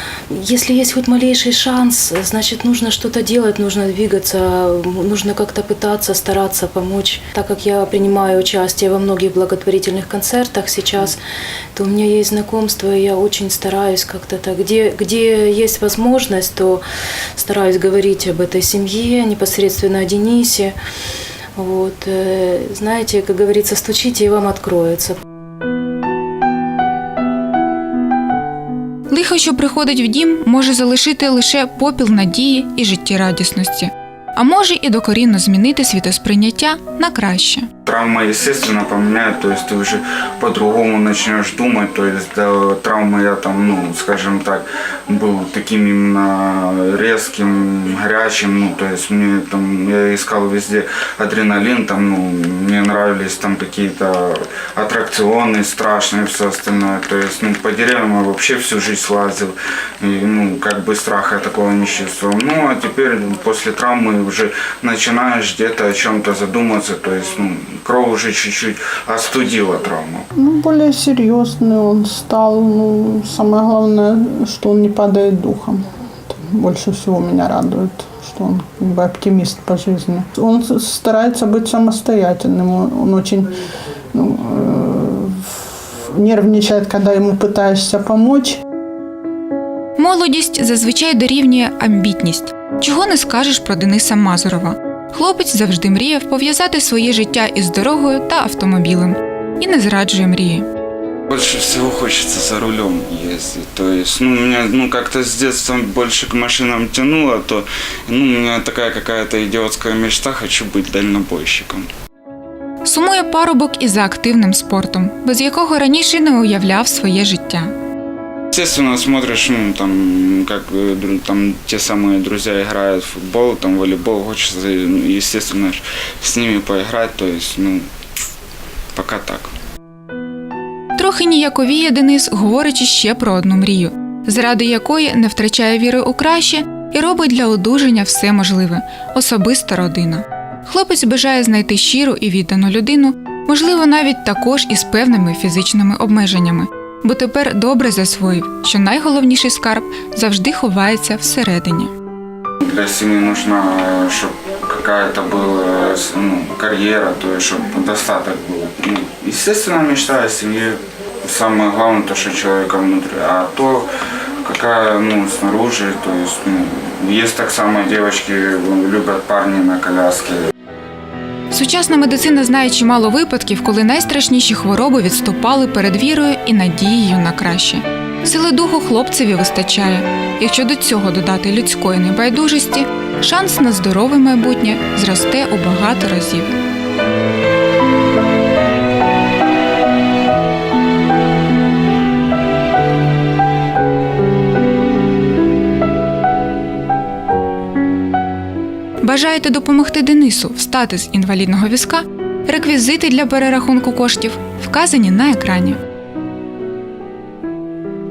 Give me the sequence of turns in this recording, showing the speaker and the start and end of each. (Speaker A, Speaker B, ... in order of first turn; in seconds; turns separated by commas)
Speaker A: 0.3-11.2, Speaker A: 11.8-16.8, Speaker A: 17.4-20.7, Speaker A: 21.6-25.1, Speaker B: 29.1-37.7, Speaker C: 37.8-70.2, Speaker D: 70.3-83.5, Speaker D: 84.1-88.6, Speaker B: 90.0-100.7, Speaker C: 101.3-111.9, Speaker B: 112.8-117.7, Speaker C: 118.5-127.9, Speaker C: 128.9-129.5, Speaker B: 130.9-151.9, Speaker C: 152.6-163.9, Speaker C: 164.4-170.4, Speaker B: 171.5-186.5, Speaker B: 199.0-205.8